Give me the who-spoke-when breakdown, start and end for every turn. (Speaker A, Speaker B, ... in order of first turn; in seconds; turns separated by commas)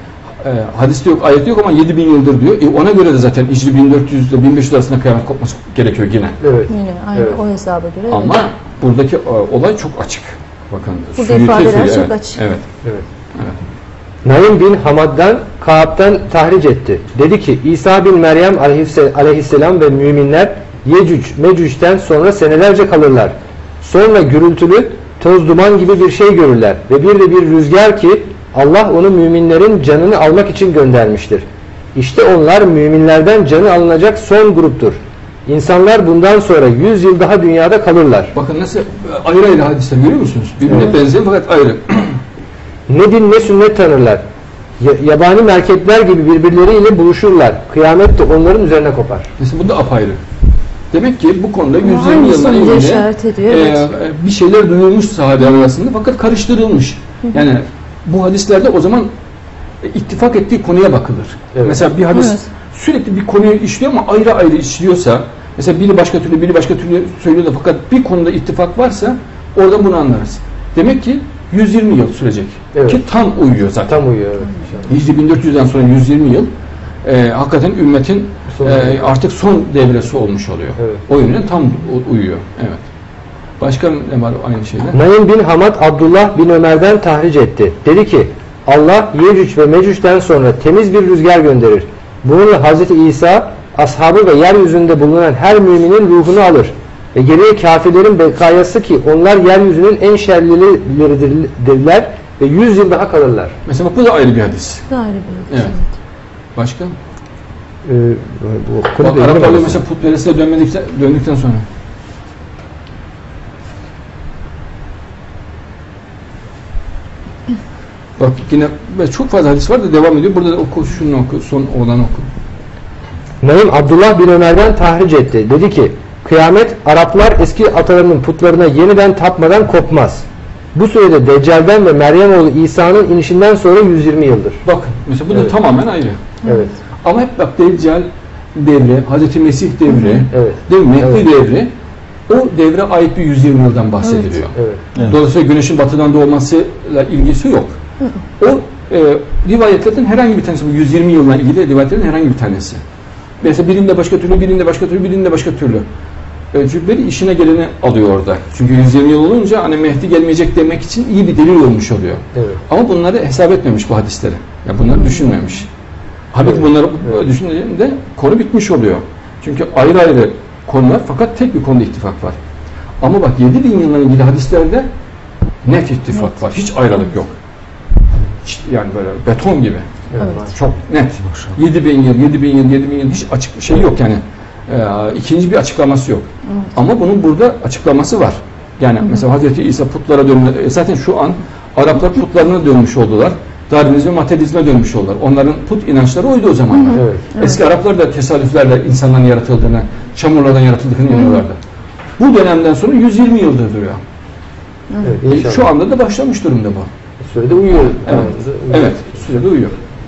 Speaker A: 0.4-6.4, Speaker B: 6.4-7.4, Speaker C: 6.7-8.4, Speaker A: 8.1-12.6, Speaker C: 11.2-12.4, Speaker B: 14.2-38.3, Speaker A: 38.3-42.2, Speaker B: 42.9-44.2, Speaker B: 44.8-49.3, Speaker A: 49.4-50.2, Speaker A: 50.9-59.1, Speaker C: 51.8-53.8, Speaker A: 59.8-74.0, Speaker B: 61.5-61.8, Speaker C: 62.1-62.5, Speaker B: 72.7-73.0, Speaker B: 73.9-74.9, Speaker A: 74.9-76.5, Speaker A: 77.0-82.8, Speaker B: 78.5-79.1, Speaker A: 83.6-85.0, Speaker B: 84.9-103.5, Speaker A: 103.7-104.8, Speaker C: 104.9-105.8, Speaker A: 105.5-105.7, Speaker A: 106.5-106.9, Speaker B: 107.8-109.8, Speaker A: 109.0-111.7, Speaker A: 118.2-122.2, Speaker B: 123.4-134.6, Speaker A: 134.6-136.2, Speaker B: 136.4-136.7, Speaker A: 137.0-141.7, Speaker B: 140.3-141.2, Speaker A: 142.3-147.8, Speaker B: 144.5-144.8, Speaker A: 148.4-152.8, Speaker A: 153.4-155.8, Speaker A: 156.5-165.7, Speaker B: 162.3-162.6, Speaker A: 166.3-172.4, Speaker A: 173.0-174.9, Speaker A: 175.6-177.3, Speaker A: 178.4-201.6, Speaker B: 180.1-180.5, Speaker C: 180.2-180.4, Speaker B: 196.9-197.2, Speaker A: 202.2-204.0, Speaker C: 204.9-205.2, Speaker B: 205.0-205.7, Speaker A: 205.2-206.9, Speaker B: 207.2-209.1, Speaker A: 208.0-209.7